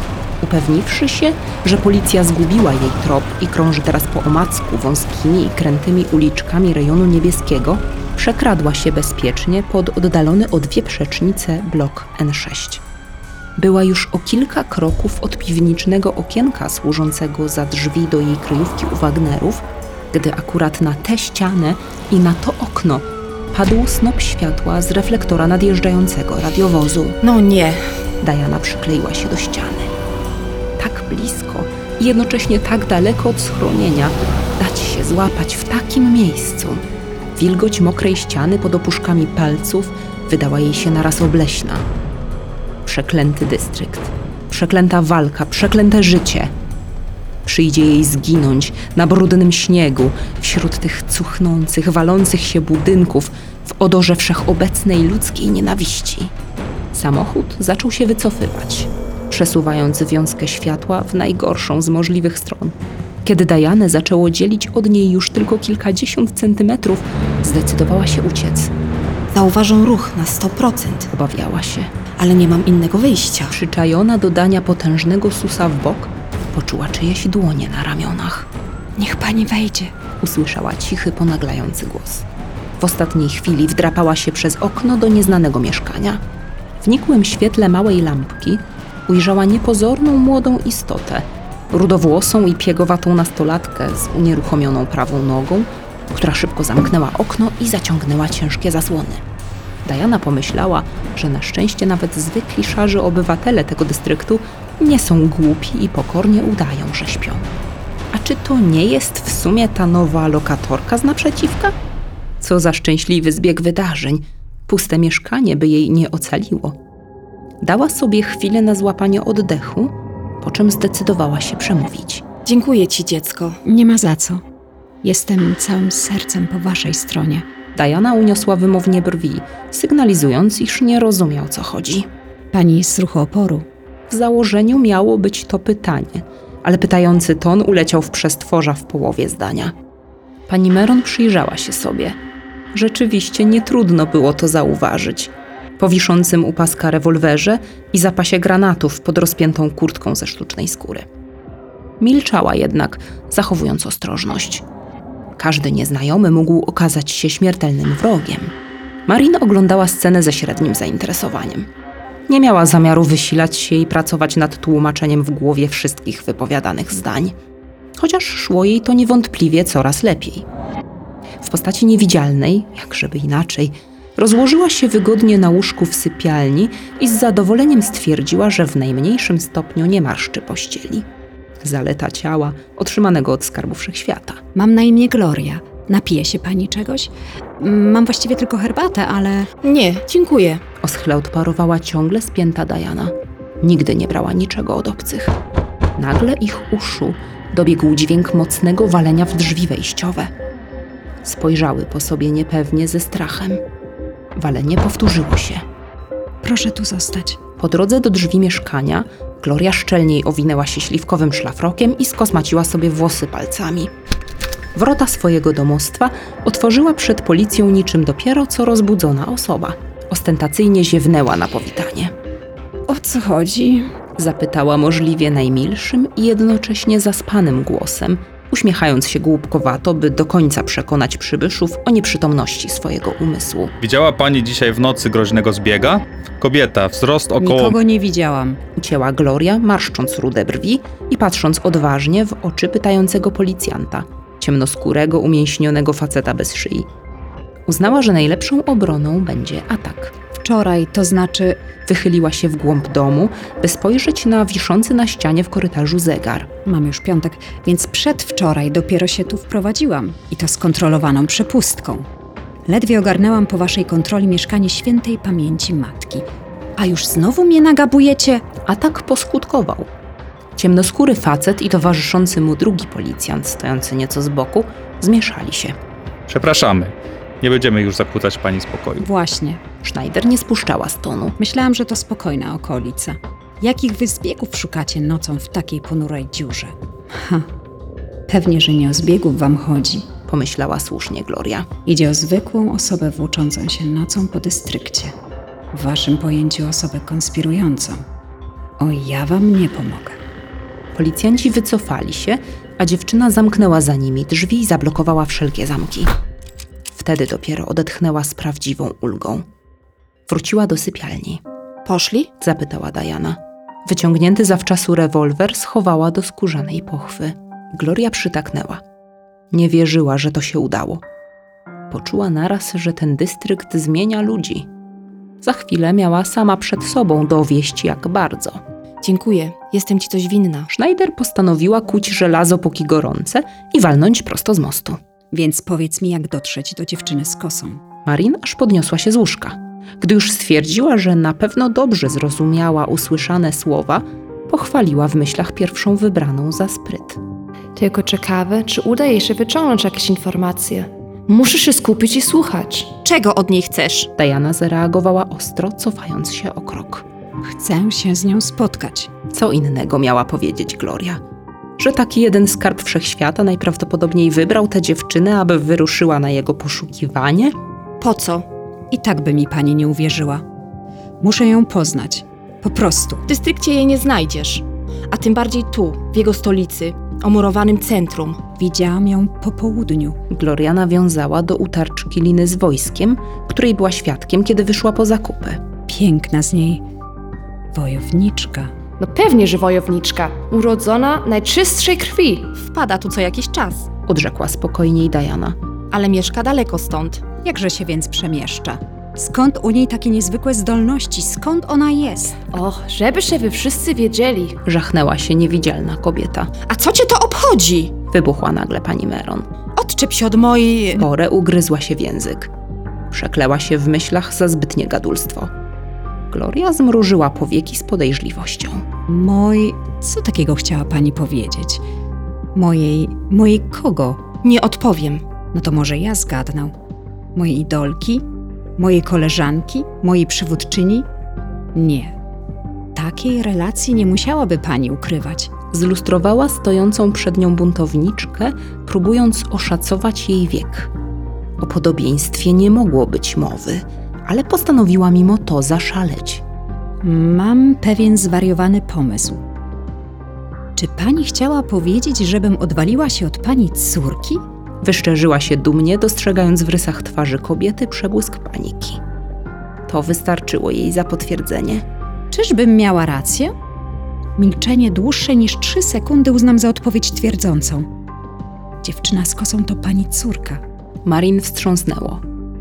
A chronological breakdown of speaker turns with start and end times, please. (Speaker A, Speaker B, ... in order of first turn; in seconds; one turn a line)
Speaker A: 0.4-12.8
Speaker A: 13.6-27.2
Speaker B: 27.2-27.8
Speaker A: 28.2-29.9
Speaker A: 30.8-36.8
Speaker A: 37.4-41.9
Speaker A: 42.9-46.5
Speaker A: 47.5-56.3
Speaker A: 56.9-68.7
Speaker B: 69.3-71.1
Speaker A: 71.1-71.9
Speaker B: 72.2-73.5
Speaker A: 73.5-78.5
Speaker C: 79.0-79.9
Speaker A: 80.2-82.3
Speaker A: 82.8-86.2
Speaker A: 86.8-99.2
Speaker A: 99.8-107.5
Speaker A: 108.1-111.7
Speaker A: 112.4-116.8
Speaker A: 117.6-122.2
Speaker B: 122.5-123.6
Speaker C: 123.7-124.4
Speaker C: 125.0-127.5
Speaker A: 127.7-132.1
Speaker C: 132.5-133.7
Speaker A: 134.1-139.7
Speaker A: 140.5-142.2
Speaker A: 142.7-151.1
Speaker A: 152.0-154.7
Speaker A: 155.4-158.5
Speaker A: 159.1-161.7
Speaker A: 162.3-167.3
Speaker A: 168.0-170.5
Speaker A: 171.4-181.1
Speaker A: 181.6-184.4
Speaker C: 184.6-189.5
Speaker B: 189.6-190.6
Speaker A: 190.8-195.4
Speaker A: 196.0-200.3
Speaker A: 201.2-203.6
Speaker A: 204.3-205.6
Speaker C: 206.4-207.4
Speaker A: 207.6-213.9
Speaker A: 214.8-222.1
Speaker C: 222.9-223.8
Speaker A: 224.2-233.7
Speaker D: 233.8-237.8
Speaker C: 237.4-238.6
Speaker A: 238.8-246.9
Speaker A: 247.7-250.1
Speaker C: 250.4-251.6
Speaker A: 251.9-256.5
Speaker C: 256.6-262.1
Speaker C: 262.7-266.3
Speaker C: 266.8-268.4
Speaker A: 268.7-269.9
Speaker A: 270.6-275.8
Speaker D: 276.3-279.1
Speaker C: 279.0-279.6
Speaker A: 279.8-281.4
Speaker C: 281.4-287.5
Speaker C: 288.3-290.1
Speaker A: 290.3-291.7
Speaker C: 291.9-295.1
Speaker C: 295.7-298.0
Speaker C: 298.8-300.2
Speaker A: 300.9-306.1
Speaker A: 306.9-309.4
Speaker A: 310.3-311.4
Speaker B: 311.9-312.3
Speaker A: 312.4-318.8
Speaker A: 319.5-321.0
Speaker A: 321.9-324.7
Speaker A: 325.4-328.6
Speaker B: 329.0-330.7
Speaker A: 330.7-335.0
Speaker C: 335.3-337.8
Speaker A: 338.1-347.2
Speaker E: 347.8-352.9
Speaker B: 353.0-354.1
Speaker A: 354.2-357.1
Speaker C: 357.4-359.1
Speaker A: 359.3-361.2
Speaker A: 361.8-367.6
Speaker B: 368.0-368.4
Speaker C: 368.9-370.4
Speaker C: 371.2-373.2
Speaker B: 373.3-378.4
Speaker C: 378.6-380.2
Speaker A: 380.3-385.6
Speaker C: 385.9-386.8
Speaker C: 387.7-388.7
Speaker E: 389.0-392.5
Speaker B: 392.5-393.9
Speaker A: 394.1-395.6
Speaker B: 395.9-397.2
Speaker C: 397.4-402.4
Speaker E: 402.5-404.6
Speaker A: 404.6-406.5
Speaker B: 406.7-407.9
Speaker A: 408.1-409.5
Speaker B: 409.8-411.1
Speaker A: 410.9-412.5
Speaker A: 413.1-415.5
Speaker A: 416.3-418.8
Speaker C: 419.1-421.8
Speaker C: 422.6-424.2
Speaker B: 424.4-425.2
Speaker C: 425.5-426.7
Speaker C: 427.4-428.2
Speaker C: 428.8-431.1
Speaker C: 431.7-432.1
Speaker C: 432.9-435.5
Speaker A: 435.7-440.9
Speaker A: 441.6-446.4
Speaker C: 447.0-449.4
Speaker C: 450.8-454.4
Speaker A: 454.8-459.0
Speaker A: 459.9-461.9
Speaker C: 462.3-463.5
Speaker C: 464.4-467.9
Speaker C: 468.8-470.6
Speaker A: 471.1-472.2